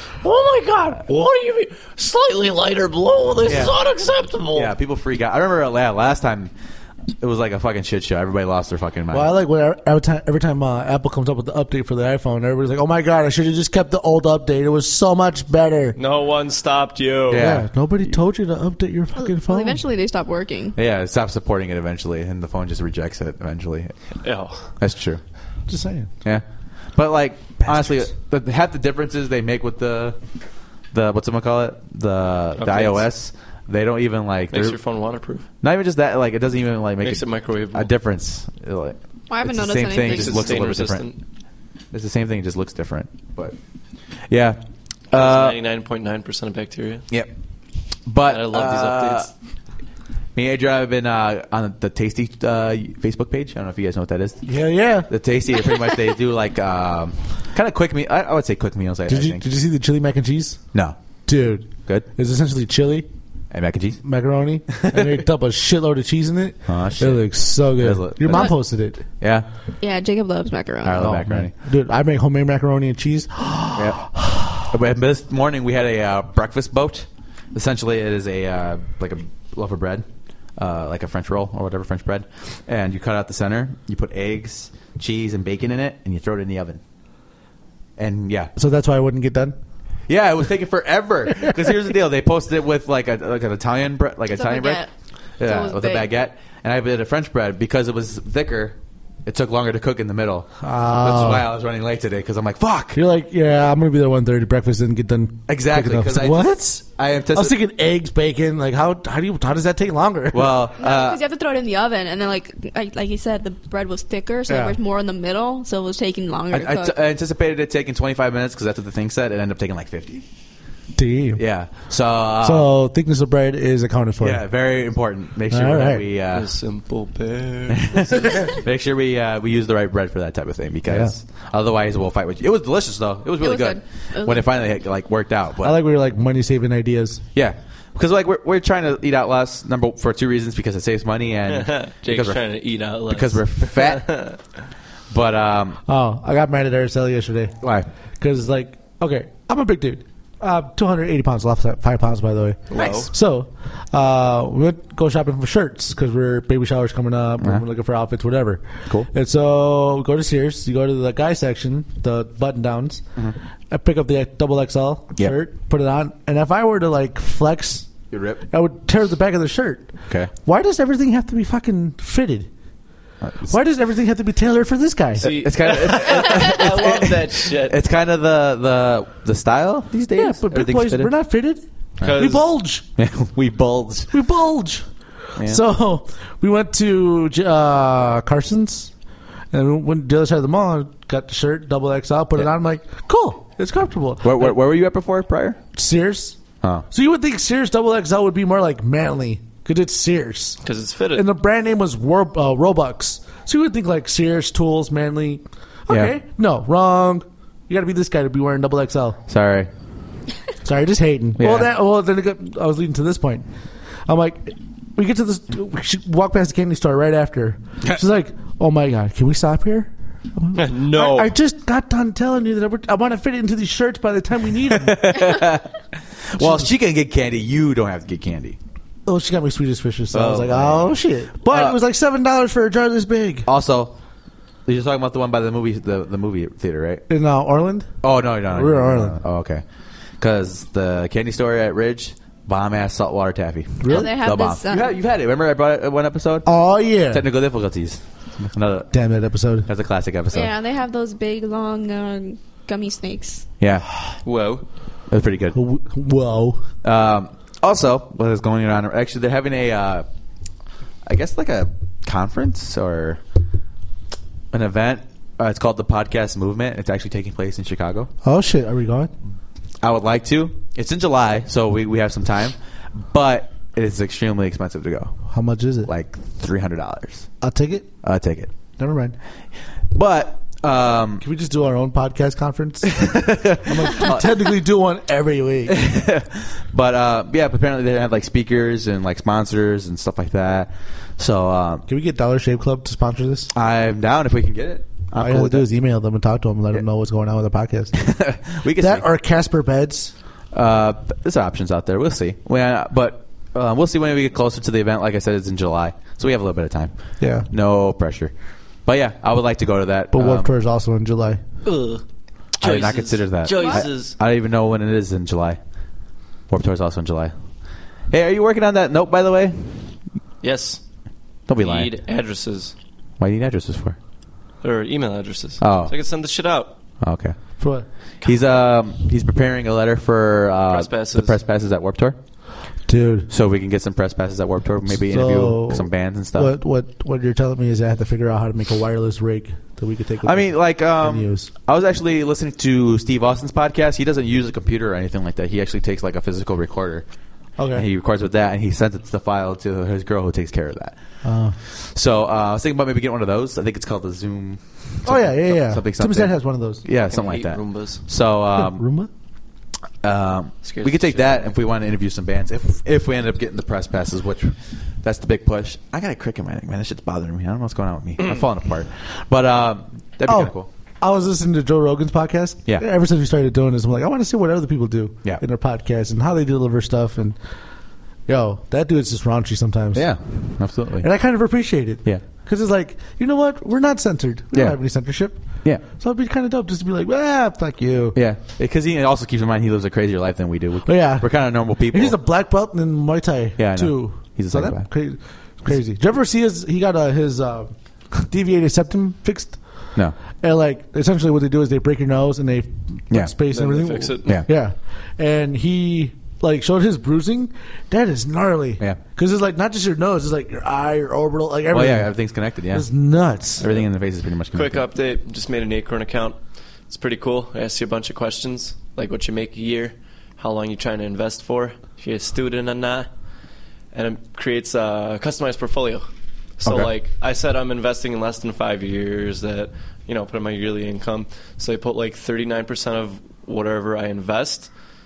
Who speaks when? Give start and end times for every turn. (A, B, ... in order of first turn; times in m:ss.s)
0:00.2-0:04.7 A
0:03.4-0:03.8 B
0:04.5-0:06.5 B
0:07.2-0:09.3 B
0:09.1-0:16.0 C
0:16.0-0:17.5 A
0:17.3-0:17.7 B
0:17.3-0:19.8 C
0:19.2-0:20.8 D
0:20.8-0:23.9 B
0:24.2-0:24.6 A
0:24.8-0:25.2 B
0:25.7-0:26.1 C
0:26.2-0:30.2 B
0:27.7-0:28.0 C
0:30.9-0:34.8 B
0:32.6-0:33.0 A
0:34.5-0:35.5 A
0:35.6-0:41.1 B
0:37.0-0:37.9 A
0:39.3-0:40.6 D
0:40.0-0:41.2 A
0:41.9-0:43.6 B
0:44.3-0:44.6 B
0:45.1-0:45.6 B
0:45.1-0:47.1 A
0:48.0-0:49.3 B
0:48.2-0:49.3 A
0:50.4-0:54.4 B
0:54.4-0:55.1 C
0:55.1-0:59.4 B
0:59.1-1:00.6 C
1:01.2-1:03.1 C
1:03.5-1:04.0 B
1:04.0-1:09.0 C
1:04.7-1:05.2 B
1:06.7-1:08.6 B
1:09.2-1:09.5 B
1:09.8-1:11.1 D
1:10.8-1:11.5 B
1:11.0-1:14.6 C
1:13.7-1:14.0 B
1:14.6-1:20.0 B
1:20.6-1:26.8 B
1:28.0-1:28.5 B
1:28.6-1:29.6 C
1:30.1-1:34.8 B
1:34.3-1:36.1 D
1:35.4-1:43.0 B
1:40.6-1:41.5 C
1:42.9-1:50.7 C
1:45.5-1:47.6 B
1:50.3-1:51.2 B
1:50.8-1:57.0 D
1:54.5-1:54.8 C
1:56.5-2:00.2 B
2:01.0-2:01.4 C
2:01.4-2:02.7 B
2:02.4-2:04.4 C
2:04.2-2:06.5 B
2:05.5-2:06.0 C
2:06.3-2:08.4 A
2:07.7-2:15.8 B
2:10.8-2:11.1 C
2:13.4-2:14.5 D
2:15.6-2:17.2 C
2:17.3-2:22.4 B
2:21.5-2:24.4 A
2:23.1-2:24.1 B
2:25.1-2:25.8 B
2:25.9-2:27.6 C
2:27.6-2:27.9 B
2:28.2-2:43.0 C
2:32.7-2:33.1 A
2:32.7-2:33.0 B
2:43.7-2:47.9 C
2:48.1-2:48.4 B
2:48.5-2:52.5 C
2:53.2-2:53.6 B
2:53.5-2:55.4 C
2:55.2-2:57.8 A
2:55.2-3:01.1 B
3:00.1-3:02.8 C
3:02.0-3:02.3 B
3:02.0-3:02.5 A
3:03.0-3:04.1 B
3:04.1-3:08.9 C
3:05.4-3:05.6 B
3:09.5-3:14.6 C
3:14.2-3:15.6 B
3:15.7-3:16.4 C
3:16.9-3:20.6 C
3:20.6-3:21.3 A
3:21.1-3:29.2 C
3:25.9-3:26.1 B
3:29.3-3:29.7 B
3:30.6-3:33.4 C
3:31.4-3:31.7 B
3:34.0-3:45.2 C
3:40.5-3:41.3 A
3:44.7-3:48.6 B
3:46.4-3:46.7 C
3:49.0-3:53.5 C
3:50.1-3:51.8 B
3:53.5-3:53.9 B
3:54.6-3:57.0 B
3:57.1-3:57.9 C
3:58.0-3:59.6 B
3:58.5-3:59.2 C
4:00.2-4:06.5 B
4:03.8-4:04.1 C
4:03.8-4:04.9 D
4:06.4-4:07.2 C
4:07.1-4:08.9 B
4:08.9-4:09.7 C
4:09.6-4:10.5 B
4:10.3-4:13.4 D
4:13.6-4:13.9 B
4:14.2-4:14.6 A
4:15.1-4:15.6 B
4:15.5-4:16.6 C
4:16.8-4:20.0 B
4:21.0-4:23.2 B
4:24.5-4:28.1 B
4:28.2-4:29.1 C
4:29.8-4:35.2 B
4:35.3-4:35.9 C
4:35.8-4:37.3 B
4:37.4-4:37.9 C
4:38.0-4:38.5 B
4:38.8-4:39.2 C
4:39.9-4:41.2 B
4:41.2-4:45.8 C
4:42.9-4:44.4 B
4:45.7-4:51.8 B
4:51.9-4:53.5 C
4:53.5-4:55.7 B
4:55.2-4:57.9 C
4:57.9-4:59.0 B
4:58.7-5:00.1 C
5:00.5-5:08.3 B
5:07.2-5:07.5 C
5:08.8-5:10.5 B
5:10.1-5:11.4 C
5:11.6-5:12.0 A
5:12.6-5:15.6 B
5:12.6-5:14.1 A
5:13.5-5:13.8 D
5:16.5-5:17.3 B
5:18.1-5:19.9 B
5:20.4-5:20.8 A
5:21.5-5:21.9 B
5:21.6-5:22.7 A
5:23.2-5:24.0 B
5:24.6-5:26.7 A
5:25.6-5:25.9 B
5:27.0-5:27.4 B
5:27.6-5:27.8 C
5:28.2-5:32.2 B
5:30.7-5:31.4 A
5:32.9-5:33.3 C
5:33.3-5:36.5 B
5:34.8-5:41.5 C
5:40.2-5:47.0 B
5:47.6-5:47.8 C
5:47.7-5:51.0 B
5:51.2-5:51.6 C
5:51.6-5:58.8 B
5:55.0-5:56.8 C
5:57.1-5:58.0 A
5:58.5-5:59.1 C
6:00.0-6:10.7 B
6:00.6-6:01.6 A
6:10.2-6:17.4 C
6:18.3-6:20.1 C
6:19.9-6:21.1 B
6:21.0-6:28.2 C
6:28.1-6:32.2 B
6:30.8-6:39.6 C
6:33.6-6:34.9 B
6:40.4-6:52.2 C
6:43.5-6:44.4 A
6:51.7-6:52.8 B
6:52.7-6:53.6 C
6:53.6-6:53.9 A
6:53.6-6:54.8 B
6:54.5-6:56.4 A
6:56.9-7:03.1 A
7:03.9-7:06.0 A
7:06.6-7:14.7 A